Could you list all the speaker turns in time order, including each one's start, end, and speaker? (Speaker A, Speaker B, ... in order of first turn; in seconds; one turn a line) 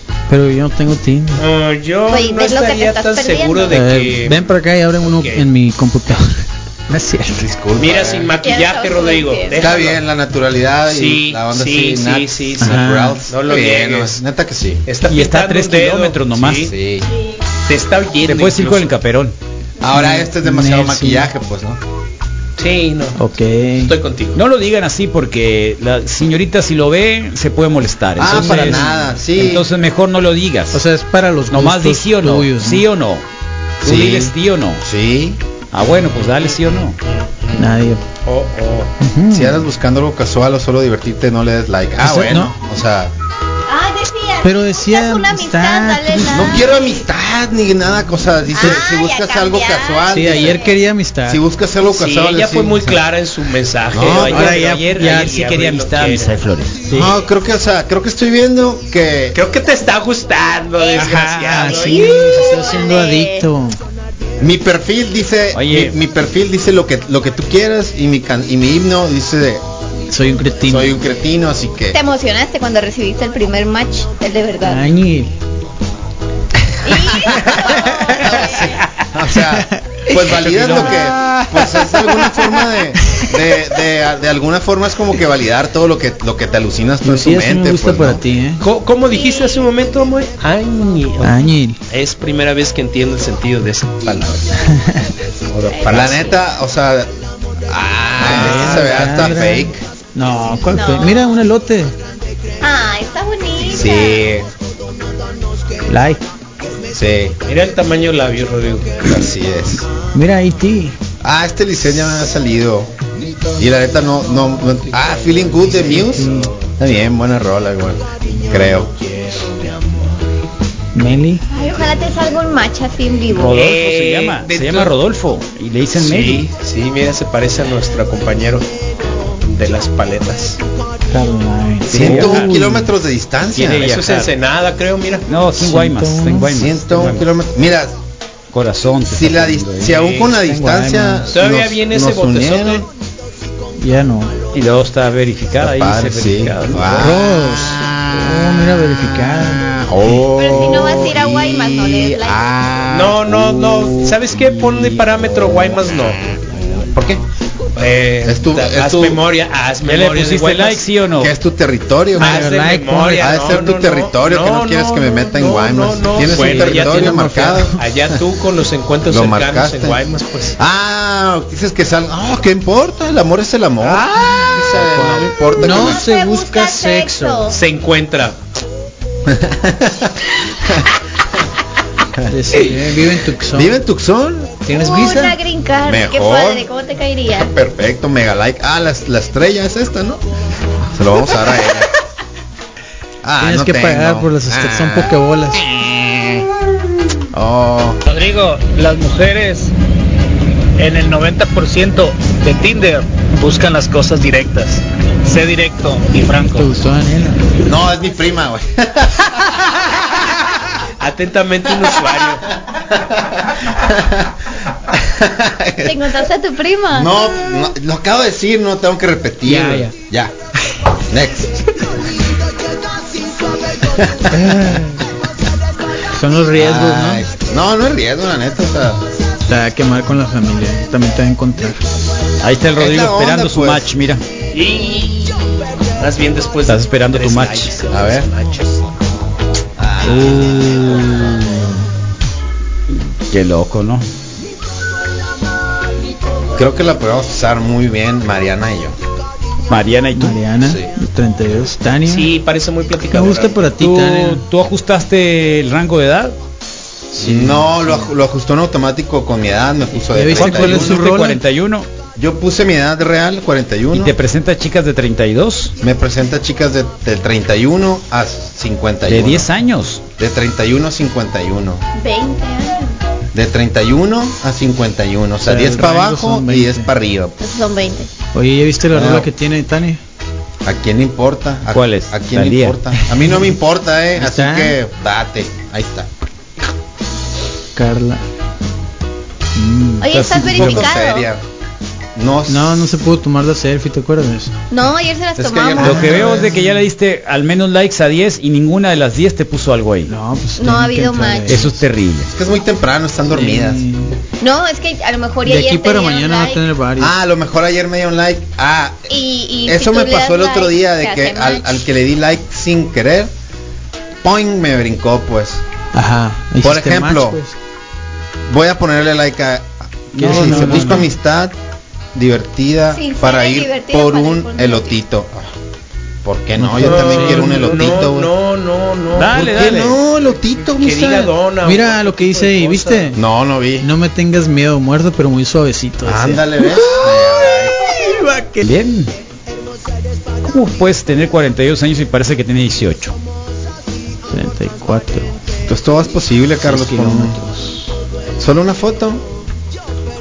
Speaker A: 0.3-1.4
Speaker B: 1.4-5.5
Speaker C: 2.1-3.8
Speaker A: 3.7-7.5
Speaker D: 7.3-8.3
Speaker B: 7.8-10.0
Speaker C: 8.4-9.7
Speaker D: 9.6-14.8
Speaker B: 10.9-14.2
Speaker A: 12.6-13.2
Speaker B: 14.9-16.7
Speaker E: 15.1-16.7
Speaker D: 16.6-17.1
Speaker B: 17.7-18.9
Speaker E: 18.2-19.4
Speaker D: 19.8-21.8
Speaker A: 19.9-21.3
Speaker B: 22.6-23.2
Speaker A: 23.2-23.9
Speaker B: 23.8-24.4
Speaker E: 24.4-30.8
Speaker D: 28.2-29.7
Speaker A: 28.2-29.0
Speaker A: 30.7-32.8
Speaker E: 31.5-33.2
Speaker E: 33.8-34.8
Speaker D: 33.8-35.4
Speaker E: 35.7-37.0
Speaker B: 37.0-38.9
Speaker A: 37.5-38.0
Speaker A: 39.0-39.6
Speaker D: 39.3-43.1
Speaker A: 42.0-42.5
Speaker C: 43.7-47.0
Speaker A: 44.4-46.6
Speaker D: 46.3-50.6
Speaker C: 48.5-50.8
Speaker A: 48.5-48.8
Speaker A: 50.1-51.4
Speaker D: 51.3-53.1
Speaker B: 51.8-56.4
Speaker D: 53.9-54.4
Speaker E: 54.0-56.8
Speaker A: 54.3-55.4
Speaker A: 56.9-57.1
Speaker D: 56.9-59.4
Speaker B: 59.3-62.4
Speaker C: 60.8-61.1
Speaker A: 61.0-63.8
Speaker C: 61.7-63.5
Speaker D: 64.4-69.6
Speaker E: 65.5-66.0
Speaker A: 70.1-71.0
Speaker D: 70.7-72.0
Speaker C: 71.9-74.9
Speaker A: 74.6-75.3
Speaker C: 76.8-78.7
Speaker D: 77.2-88.2
Speaker A: 79.3-80.1
Speaker B: 80.4-81.0
Speaker A: 81.3-82.4
Speaker A: 87.0-88.6
Speaker B: 88.6-94.4
Speaker C: 89.1-89.7
Speaker A: 91.2-91.8
Speaker D: 94.1-94.3
Speaker A: 94.6-95.1
Speaker B: 95.5-96.2
Speaker C: 95.7-96.4
Speaker D: 95.9-97.1
Speaker D: 97.7-99.8
Speaker A: 98.2-102.0
Speaker B: 98.2-99.3
Speaker C: 100.7-101.3
Speaker C: 102.6-104.3
Speaker D: 103.7-104.5
Speaker A: 105.9-106.2
Speaker D: 106.9-107.4
Speaker B: 107.5-109.0
Speaker D: 109.0-109.8
Speaker A: 110.1-111.0
Speaker D: 111.2-112.9
Speaker D: 113.6-118.9
Speaker B: 114.7-116.8
Speaker A: 115.9-116.5
Speaker B: 118.4-120.1
Speaker A: 121.0-121.4
Speaker C: 121.5-123.6
Speaker E: 123.3-126.5
Speaker B: 123.5-125.0
Speaker B: 126.0-128.7
Speaker B: 129.4-130.6
Speaker A: 131.1-132.9
Speaker D: 131.9-133.9
Speaker E: 131.9-132.5
Speaker E: 133.6-134.4
Speaker B: 133.8-135.3
Speaker E: 135.3-137.3
Speaker A: 135.6-136.5
Speaker D: 136.5-138.0
Speaker E: 138.5-140.1
Speaker D: 139.1-142.9
Speaker B: 139.9-140.4
Speaker A: 140.4-141.3
Speaker B: 141.3-142.9
Speaker A: 143.8-144.4
Speaker E: 144.5-147.2
Speaker D: 145.6-153.8
Speaker A: 147.0-149.7
Speaker C: 150.3-152.4
Speaker B: 152.9-156.2
Speaker D: 154.5-157.2
Speaker B: 157.8-160.9
Speaker D: 158.2-159.2
Speaker E: 159.8-161.3
Speaker D: 161.2-162.5
Speaker A: 162.2-163.6
Speaker B: 162.2-170.6
Speaker D: 163.2-167.8
Speaker A: 166.2-167.8
Speaker D: 169.1-170.0
Speaker D: 170.6-176.1
Speaker B: 173.9-174.5
Speaker A: 174.2-177.5
Speaker C: 175.6-177.6
Speaker B: 177.5-178.4
Speaker D: 179.3-180.9
Speaker A: 182.3-183.8
Speaker D: 183.5-184.6
Speaker B: 184.7-185.4
Speaker C: 184.7-187.5
Speaker D: 185.8-186.7
Speaker D: 187.3-190.2
Speaker D: 190.9-191.9
Speaker D: 193.2-196.5
Speaker A: 193.4-195.7
Speaker D: 197.3-198.0
Speaker F: 198.1-199.7
Speaker F: 200.8-206.8
Speaker A: 206.5-207.4
Speaker D: 207.6-210.6
Speaker B: 211.0-212.5
Speaker D: 212.7-216.2
Speaker C: 215.8-217.2
Speaker D: 216.9-220.3
Speaker A: 219.5-219.9
Speaker D: 221.0-221.7
Speaker D: 223.8-224.5
Speaker A: 224.3-225.0
Speaker A: 226.1-227.3
Speaker D: 226.6-229.1
Speaker A: 229.5-231.8
Speaker E: 232.4-234.2
Speaker D: 232.8-233.9
Speaker B: 234.5-235.4
Speaker B: 236.0-238.8
Speaker E: 236.7-237.8
Speaker D: 237.9-238.3
Speaker D: 239.8-240.7
Speaker E: 240.1-241.6
Speaker E: 242.9-244.1
Speaker D: 246.6-249.0
Speaker E: 249.7-250.4
Speaker A: 250.2-252.3
Speaker D: 250.6-250.9
Speaker B: 252.1-253.7
Speaker A: 253.1-254.4
Speaker E: 253.8-256.4
Speaker A: 257.1-258.0
Speaker D: 257.2-261.1
Speaker A: 260.1-261.4
Speaker E: 260.4-261.9
Speaker D: 262.2-264.1
Speaker E: 263.9-265.7
Speaker D: 265.8-269.5
Speaker E: 269.1-270.0
Speaker D: 270.2-271.8
Speaker C: 272.0-273.0
Speaker D: 273.3-277.4
Speaker A: 275.4-276.9
Speaker C: 277.4-278.1
Speaker A: 278.3-280.0
Speaker D: 278.9-279.3
Speaker D: 280.6-286.1
Speaker E: 281.7-282.8
Speaker A: 284.2-284.8
Speaker A: 287.8-288.2
Speaker A: 289.6-290.7
Speaker C: 290.0-291.3
Speaker D: 290.2-291.4
Speaker E: 290.5-290.8
Speaker D: 292.1-292.9
Speaker A: 292.5-294.5
Speaker C: 294.7-296.2
Speaker D: 295.4-296.5
Speaker E: 295.8-300.1
Speaker A: 295.8-296.9
Speaker A: 300.1-301.8
Speaker C: 300.6-301.6
Speaker E: 301.5-302.3
Speaker D: 302.3-303.8
Speaker A: 303.3-304.2
Speaker C: 304.4-306.6
Speaker A: 305.4-307.1
Speaker D: 307.0-309.1
Speaker C: 309.1-311.9
Speaker D: 309.6-313.3
Speaker D: 314.2-315.6
Speaker A: 315.9-317.6
Speaker D: 316.6-317.4
Speaker D: 318.5-321.5
Speaker E: 320.1-321.1
Speaker A: 320.2-321.1
Speaker D: 322.1-325.5
Speaker C: 322.9-325.0
Speaker D: 326.2-328.3
Speaker A: 326.6-328.0
Speaker B: 326.8-329.4
Speaker E: 329.1-330.0
Speaker D: 329.3-331.3
Speaker B: 330.7-333.2
Speaker A: 331.6-333.2
Speaker D: 333.2-333.9
Speaker A: 333.8-338.7
Speaker D: 336.1-337.8
Speaker E: 338.6-339.1
Speaker E: 340.5-343.2
Speaker A: 344.3-345.3
Speaker D: 345.7-347.4
Speaker A: 346.6-347.9
Speaker D: 348.4-349.3